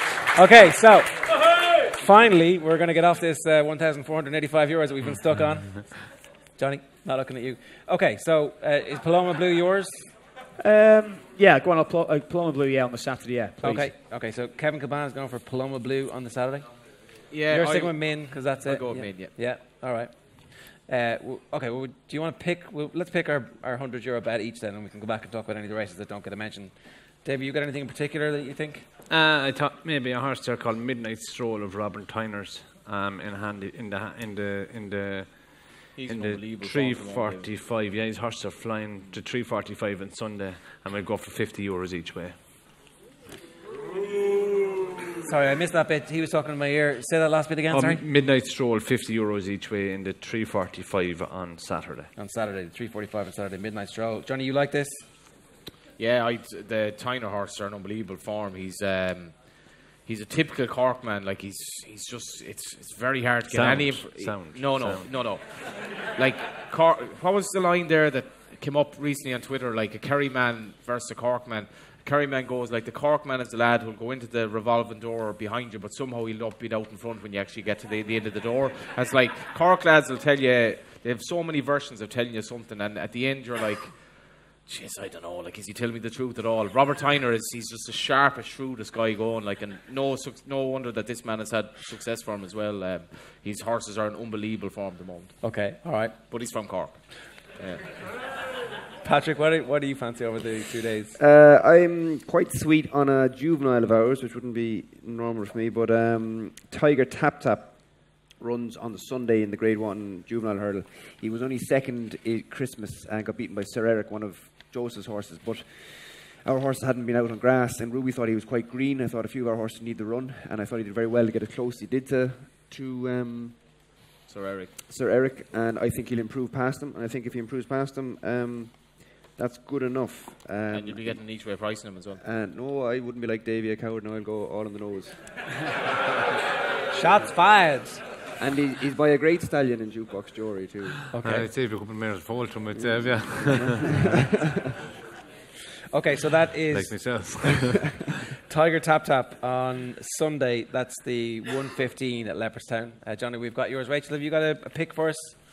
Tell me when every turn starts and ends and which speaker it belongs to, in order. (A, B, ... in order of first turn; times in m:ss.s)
0:00.3-0:10.1 A
0:05.6-0:05.9 B
0:10.6-0:13.9 C
0:13.6-0:16.7 A
0:17.3-0:19.3 D
0:17.5-0:28.9 A
0:29.1-0:42.4 B
0:36.0-0:37.5 D
0:45.2-0:48.0 A
0:47.7-0:52.1 B
0:52.2-0:55.1 A
0:56.0-1:35.4 D
1:03.5-1:05.2 B
1:35.4-1:36.2 A
1:36.3-1:37.9 D
1:39.0-1:41.2 A
1:41.2-2:03.6 E
2:04.3-2:04.7 D
2:04.9-2:11.2 E
2:10.7-2:12.2 D
2:12.2-2:15.2 E
2:16.9-2:18.0 A
2:18.4-2:21.0 E
2:21.1-2:21.5 A
2:21.2-2:24.1 B
2:22.8-2:24.6 E
2:25.9-2:27.1 A
2:26.7-2:28.0 B
2:28.5-2:35.4 A